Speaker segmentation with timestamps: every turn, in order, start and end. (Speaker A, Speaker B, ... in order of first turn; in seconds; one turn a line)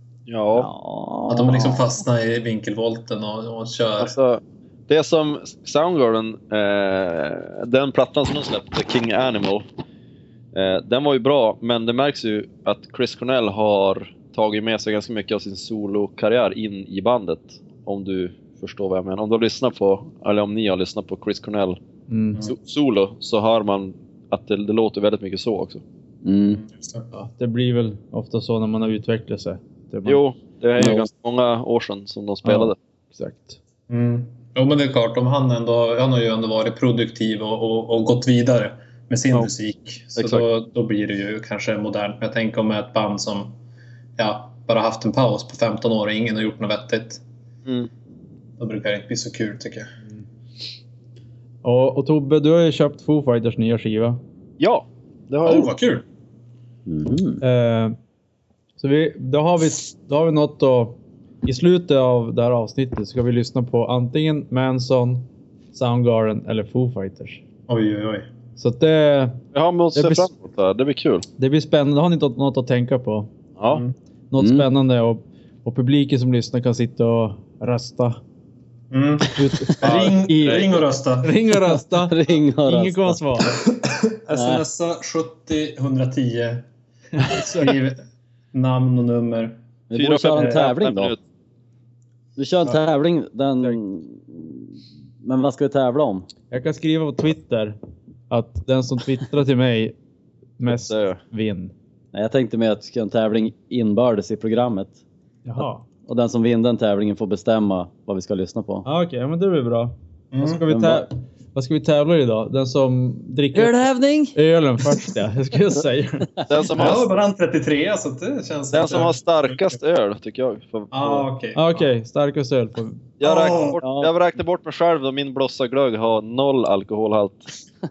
Speaker A: 0.3-0.7
Speaker B: 0.5-2.0
Speaker C: 1.3-4.1
Speaker A: 4.0-9.7
Speaker A: 10.5-21.8
Speaker D: 22.1-22.4
Speaker A: 22.4-25.8
Speaker B: 26.2-26.6
Speaker C: 26.5-27.1
Speaker D: 27.1-30.2
Speaker A: 30.1-32.8
Speaker B: 30.8-31.1
Speaker D: 32.5-33.6
Speaker C: 33.9-43.6
Speaker A: 40.2-40.5
Speaker C: 44.2-47.2
Speaker C: 48.6-49.9
Speaker D: 51.6-54.2
Speaker A: 54.6-55.7
Speaker C: 55.5-56.0
Speaker B: 56.9-57.4
Speaker D: 57.4-58.0
Speaker D: 58.8-67.4
Speaker C: 67.7-68.3
Speaker D: 68.6-69.4
Speaker A: 69.5-71.3
Speaker D: 69.9-70.3
Speaker D: 71.4-73.3
Speaker A: 73.6-73.8
Speaker D: 74.3-78.2
Speaker B: 74.4-74.7
Speaker C: 78.9-81.3
Speaker D: 79.3-83.5
Speaker A: 79.8-80.7
Speaker B: 81.9-83.2
Speaker C: 83.5-86.7
Speaker B: 84.3-84.7
Speaker D: 87.2-87.7
Speaker C: 87.2-88.0
Speaker C: 88.5-89.6
Speaker B: 89.9-91.2
Speaker A: 89.9-91.2
Speaker D: 90.4-90.7
Speaker B: 92.4-96.3
Speaker D: 96.5-97.8
Speaker D: 98.3-100.0
Speaker D: 100.6-101.7
Speaker A: 100.7-101.2
Speaker B: 102.1-105.0
Speaker D: 105.5-105.8
Speaker B: 106.1-108.9
Speaker D: 108.8-116.4
Speaker C: 110.3-110.7
Speaker B: 110.7-111.1
Speaker B: 113.5-114.3
Speaker A: 116.5-117.1
Speaker C: 116.7-119.6
Speaker A: 118.7-121.3
Speaker C: 120.9-121.9
Speaker D: 121.5-123.0
Speaker A: 123.2-127.5
Speaker C: 123.2-123.8
Speaker B: 123.8-124.1